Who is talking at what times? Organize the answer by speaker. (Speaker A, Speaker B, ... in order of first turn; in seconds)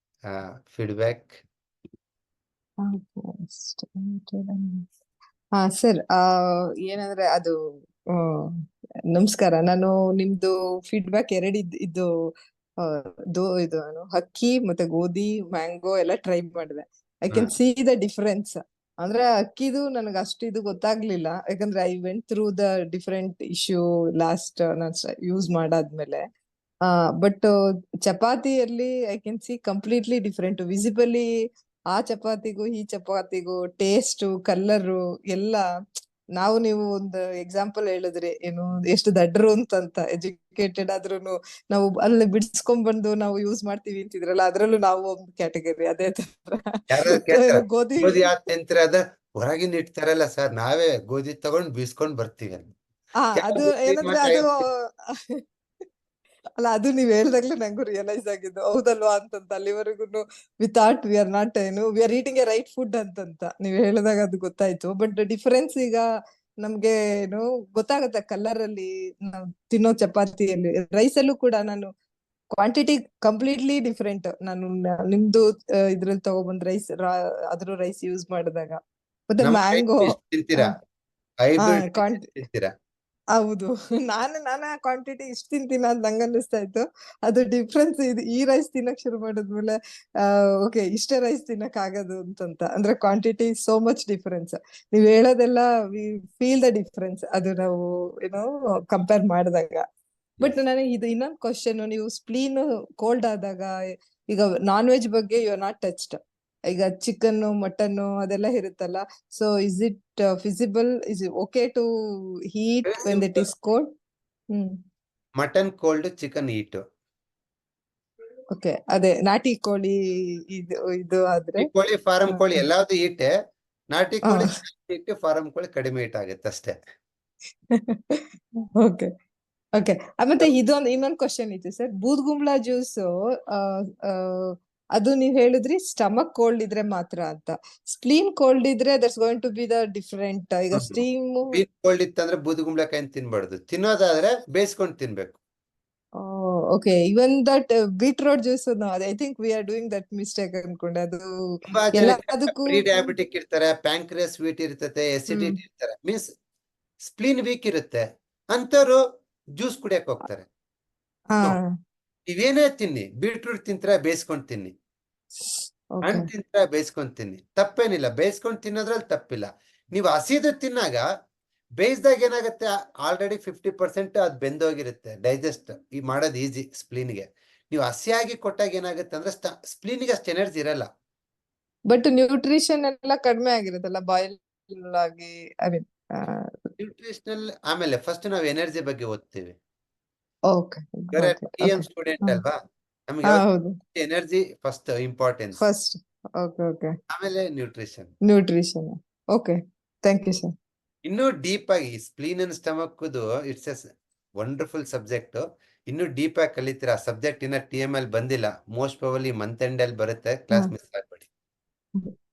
Speaker A: 0.3-1.4, 46.9-52.7, 53.4-54.5, 79.4-80.7, 81.4-82.7, 112.9-113.5, 115.4-116.8, 121.6-123.3, 123.9-126.8, 140.7-141.0, 141.5-145.4, 151.7-156.2, 157.0-159.0, 159.6-160.5, 162.3-164.7, 166.0-171.1, 171.8-180.9, 186.8-189.6, 191.1-192.6, 193.1-195.6, 197.1-198.1, 201.0-203.8, 204.4-211.3
Speaker B: 2.8-4.8, 5.5-7.5, 8.2-8.5, 9.1-12.1, 12.8-26.2, 26.9-27.5, 28.0-31.3, 31.9-35.6, 36.4-48.2, 53.2-54.8, 56.6-66.0, 66.6-71.9, 72.5-80.7, 81.6-82.3, 83.3-99.8, 100.4-103.7, 104.3-106.2, 106.7-111.9, 112.5-113.9, 118.5-120.0, 120.5-121.7, 122.3-122.6, 127.8-128.2, 128.8-129.1, 129.8-141.6, 146.2-151.2, 151.9-153.1, 161.3-161.7, 165.4-166.2, 181.9-186.7, 190.5-192.4, 193.2-193.7, 195.6-196.9, 198.2-200.5